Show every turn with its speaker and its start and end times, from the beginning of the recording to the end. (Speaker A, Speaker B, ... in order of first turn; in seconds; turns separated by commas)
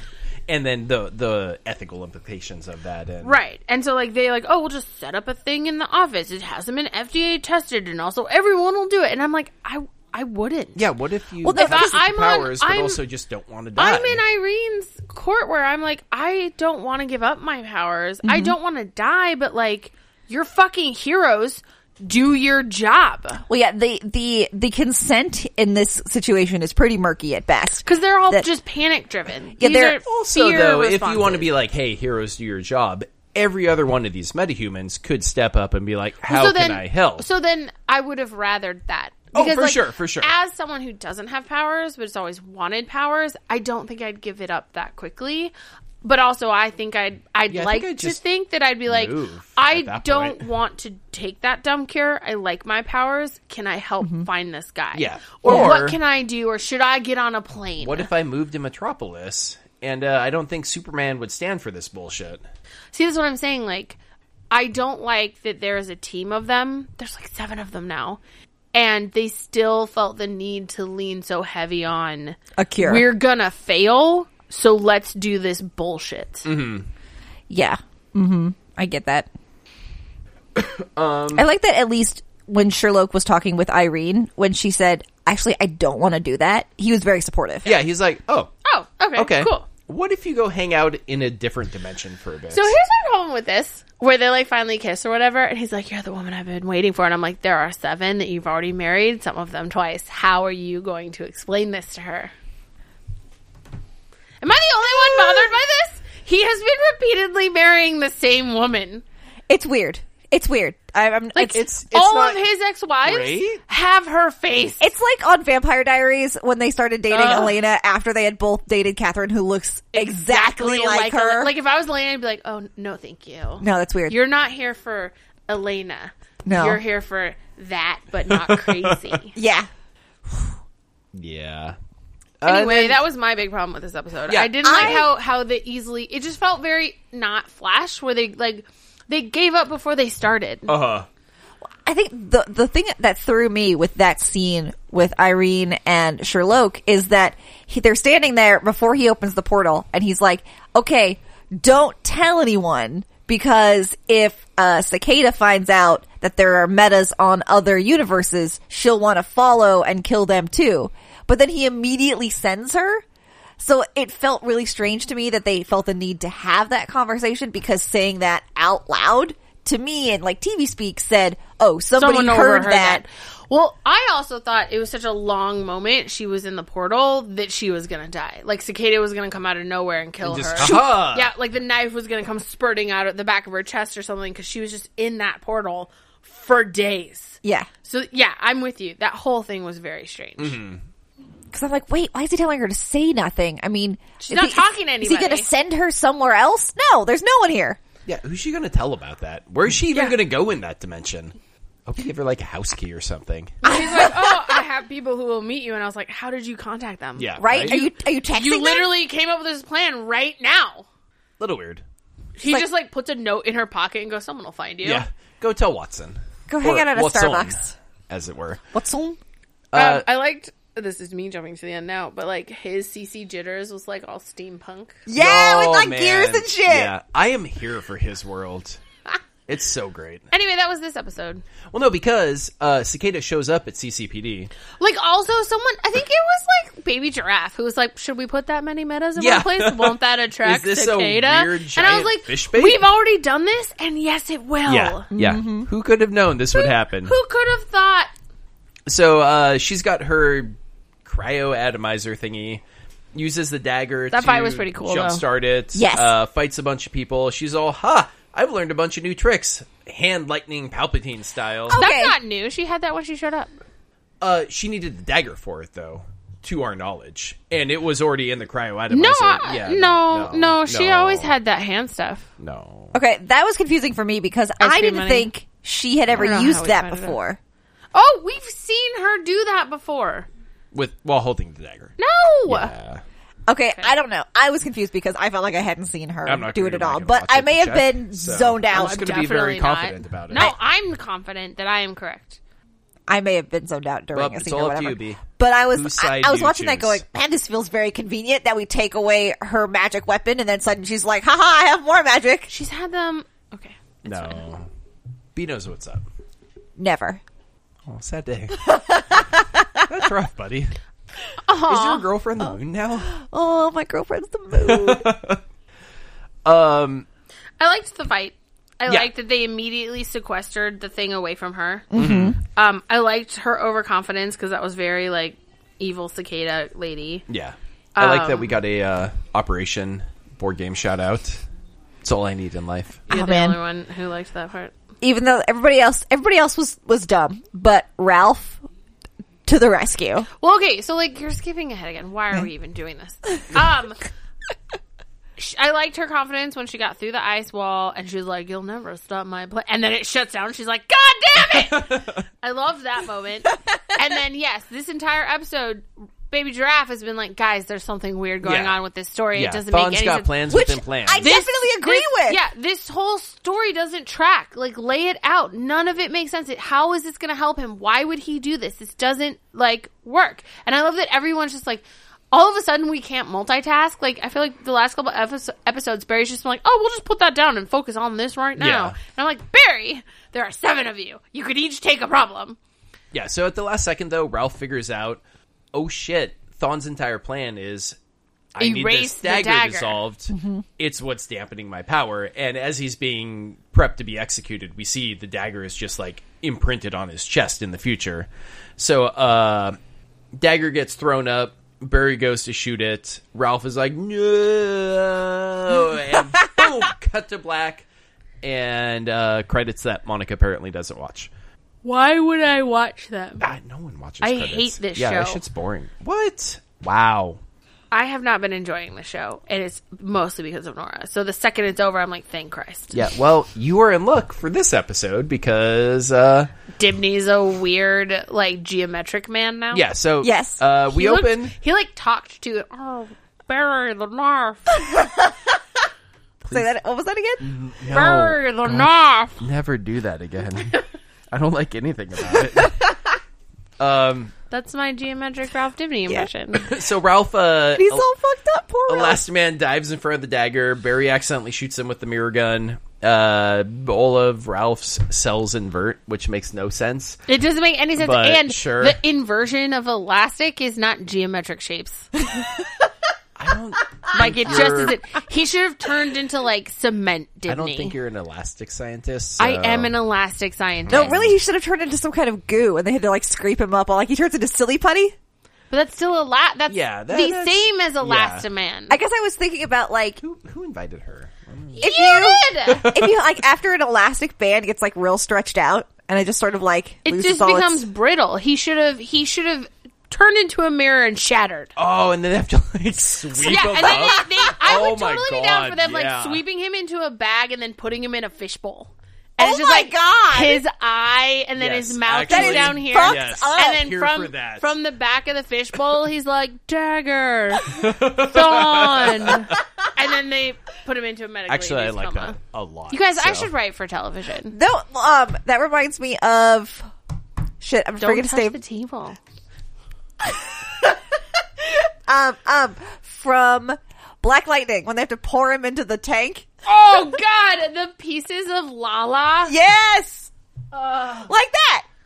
Speaker A: 0.5-3.4, Speaker B: 3.2-10.8, Speaker A: 10.8-14.2, Speaker C: 11.4-11.9, Speaker B: 11.5-13.0, Speaker B: 13.8-23.4, Speaker C: 18.2-18.5, Speaker C: 23.5-28.5, Speaker B: 27.8-31.5, Speaker C: 29.6-30.0, Speaker A: 30.0-37.2, Speaker B: 36.3-58.1, Speaker A: 39.3-40.3, Speaker A: 47.5-48.2, Speaker A: 48.9-50.4, Speaker A: 54.9-56.0, Speaker C: 55.5-55.7, Speaker A: 57.8-62.4, Speaker B: 62.9-64.0, Speaker B: 64.5-68.2, Speaker B: 68.7-76.5, Speaker C: 72.6-73.0, Speaker A: 76.5-76.9, Speaker C: 77.5-79.3, Speaker A: 80.5-81.4, Speaker C: 81.3-87.8, Speaker A: 87.6-88.5, Speaker B: 88.6-89.7, Speaker A: 89.1-92.7, Speaker B: 92.5-102.3, Speaker B: 104.4-109.0, Speaker C: 109.5-111.6, Speaker B: 111.3-114.9, Speaker A: 111.4-112.4, Speaker A: 113.0-113.6, Speaker C: 114.8-121.5, Speaker B: 117.1-117.6, Speaker B: 119.9-129.3, Speaker C: 123.6-124.2, Speaker C: 126.5-126.8, Speaker A: 128.3-129.1, Speaker C: 129.3-129.7, Speaker A: 131.1-131.8, Speaker A: 132.4-133.0, Speaker B: 132.4-140.7, Speaker A: 134.3-135.0, Speaker C: 134.6-135.1, Speaker A: 140.7-141.1, Speaker C: 141.8-163.0, Speaker C: 163.6-173.0, Speaker B: 171.9-190.6, Speaker A: 180.2-181.3, Speaker C: 187.4-187.7, Speaker A: 190.4-190.8, Speaker C: 191.5-197.8, Speaker B: 194.2-195.5, Speaker A: 198.1-201.3, Speaker B: 199.9-200.2, Speaker A: 201.9-203.6, Speaker B: 203.6-210.8, Speaker C: 203.6-204.4, Speaker A: 207.2-207.8, Speaker C: 207.4-208.9, Speaker A: 211.4-211.8, Speaker B: 212.3-215.0, Speaker A: 214.8-218.6, Speaker C: 216.5-217.7, Speaker C: 218.7-219.2, Speaker A: 219.7-220.0, Speaker B: 219.7-225.0, Speaker C: 225.1-226.9, Speaker A: 225.1-228.8, Speaker A: 229.5-230.3, Speaker B: 230.3-231.4, Speaker A: 231.7-234.5, Speaker B: 234.8-245.1, Speaker A: 239.2-242.9, Speaker A: 244.7-247.1, Speaker C: 245.1-245.7, Speaker B: 246.5-248.1, Speaker A: 248.9-252.6, Speaker A: 253.1-261.8, Speaker B: 254.1-255.2, Speaker C: 255.7-256.1, Speaker C: 261.7-262.2, Speaker B: 261.8-263.5, Speaker A: 264.2-271.3, Speaker B: 268.9-272.3, Speaker A: 272.4-272.9, Speaker C: 272.9-277.4, Speaker B: 274.6-275.3, Speaker A: 276.1-276.4, Speaker B: 276.1-277.2, Speaker B: 277.9-280.3, Speaker A: 280.7-283.0, Speaker B: 282.0-282.7, Speaker C: 283.5-289.1, Speaker A: 286.2-290.5, Speaker B: 288.7-292.4, Speaker C: 293.1-302.5, Speaker A: 294.1-297.0, Speaker B: 302.5-304.4, Speaker A: 304.0-304.7, Speaker A: 305.3-306.0, Speaker C: 306.8-307.2, Speaker A: 307.9-308.7, Speaker C: 308.5-310.0, Speaker A: 309.8-310.8, Speaker B: 311.4-312.1, Speaker A: 311.6-313.1, Speaker C: 313.0-315.1, Speaker A: 314.5-315.4, Speaker A: 316.4-317.1, Speaker B: 317.6-321.9, Speaker C: 321.9-322.4, Speaker A: 321.9-322.4, Speaker B: 322.4-327.2, Speaker A: 327.3-331.4, Speaker B: 327.9-328.5, Speaker A: 332.0-333.1, Speaker B: 333.1-334.7, Speaker C: 333.1-333.6, Speaker C: 335.0-338.6, Speaker C: 339.4-340.3, Speaker B: 340.4-344.0, Speaker B: 345.4-360.3, Speaker A: 351.4-352.2, Speaker A: 358.4-358.8, Speaker A: 359.3-361.3, Speaker C: 360.5-362.4, Speaker B: 361.2-382.6, Speaker A: 378.6-379.0, Speaker A: 383.1-385.2, Speaker A: 385.7-388.0, Speaker A: 388.5-399.8, Speaker B: 388.6-390.0, Speaker C: 390.3-390.6, Speaker A: 400.4-407.9, Speaker A: 408.4-411.3, Speaker B: 411.8-413.4, Speaker A: 413.4-417.4, Speaker B: 414.2-415.4, Speaker B: 417.9-423.0, Speaker A: 422.9-426.5, Speaker B: 426.8-429.8, Speaker A: 429.7-431.5, Speaker C: 430.2-430.6, Speaker B: 430.9-434.7, Speaker C: 434.8-435.6, Speaker A: 436.4-436.7, Speaker C: 436.5-437.4, Speaker A: 437.4-442.9, Speaker B: 437.9-439.4, Speaker A: 443.8-444.3, Speaker B: 444.5-446.7, Speaker A: 446.5-448.1, Speaker C: 447.8-449.2, Speaker A: 448.9-457.2, Speaker B: 457.3-462.1, Speaker A: 458.0-459.0, Speaker A: 463.4-464.9, Speaker B: 464.1-467.9, Speaker C: 464.1-464.8, Speaker A: 467.5-469.9, Speaker B: 469.4-471.2, Speaker A: 470.9-471.4, Speaker C: 470.9-475.1, Speaker B: 475.7-479.0, Speaker A: 476.7-478.4, Speaker C: 478.9-480.2, Speaker A: 480.2-481.8, Speaker B: 481.7-482.9, Speaker C: 481.8-487.8, Speaker A: 482.6-483.1, Speaker B: 487.0-491.7, Speaker A: 491.8-496.4, Speaker B: 493.4-512.4, Speaker C: 493.5-494.4, Speaker C: 499.4-500.6, Speaker A: 501.6-504.7, Speaker C: 502.3-503.8, Speaker A: 507.6-509.5, Speaker A: 511.5-513.5, Speaker B: 512.9-514.5, Speaker C: 514.5-516.9, Speaker C: 517.6-518.6, Speaker B: 518.0-519.2, Speaker C: 520.2-521.0, Speaker C: 521.6-526.5, Speaker B: 526.6-529.5, Speaker C: 529.5-530.3, Speaker B: 530.7-531.3, Speaker C: 531.2-531.8